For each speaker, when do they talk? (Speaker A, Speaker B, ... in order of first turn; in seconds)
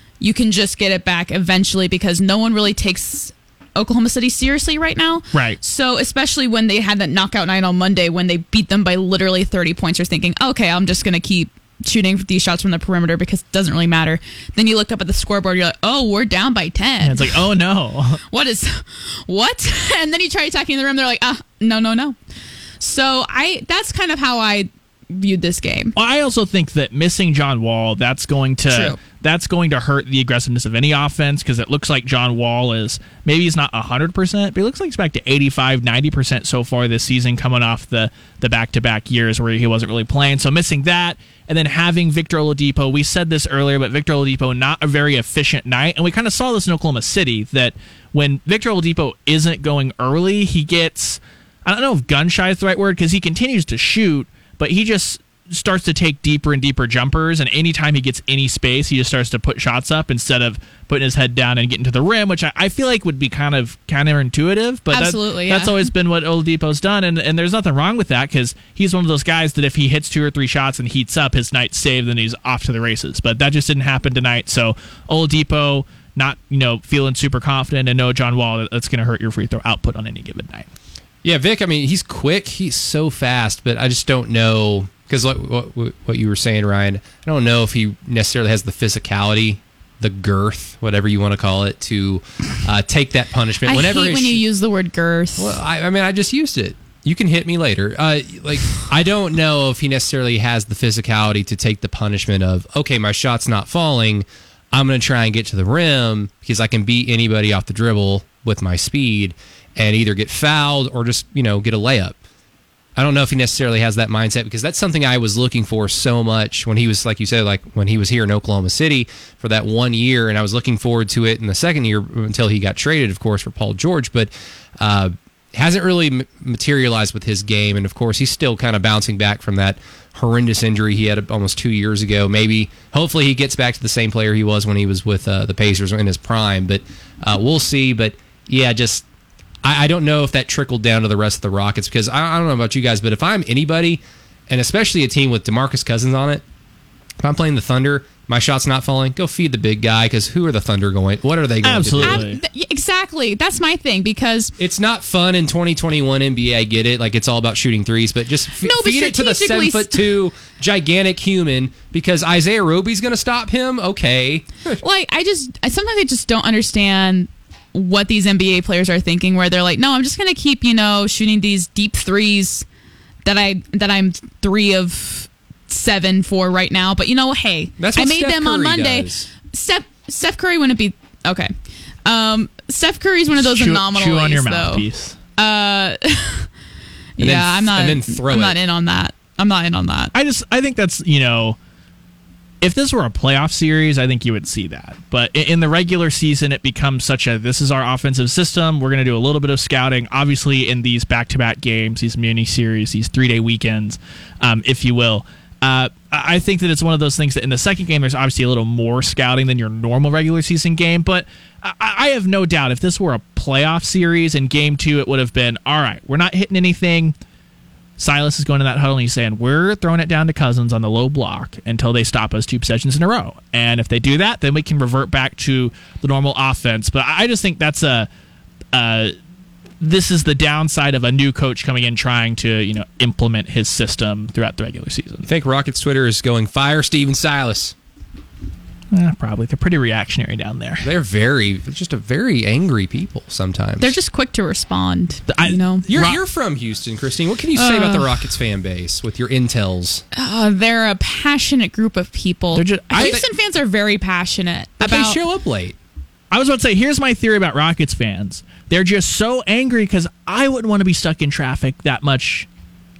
Speaker A: 0.2-17.5, 18.3-22.2, 22.8-25.9, 28.7-29.0, 64.9-65.9, 93.6-95.6, 152.0-154.5, 158.6-160.0, 164.8-172.7, 173.2-181.5, 182.0-184.8, 185.4-186.5, 187.2-190.1, 243.8-245.9, 247.5-248.2, 250.1-255.2
Speaker B: 5.3-5.6, 17.0-18.2, 25.9-80.7, 151.6-152.4, 183.4-185.2, 190.1-191.6, 192.6-217.1, 218.0-228.1, 228.7-229.1, 229.8-235.3, 238.9-240.9, 245.3-246.2, 252.5-253.2, 256.3-262.5
Speaker C: 81.2-94.4, 95.4-112.2, 113.0-139.0, 139.6-146.4, 147.2-152.2, 154.6-164.8, 177.8-179.3, 187.2-188.6, 235.2-237.7, 240.8-243.9, 245.9-250.0, 253.0-253.2, 254.8-255.7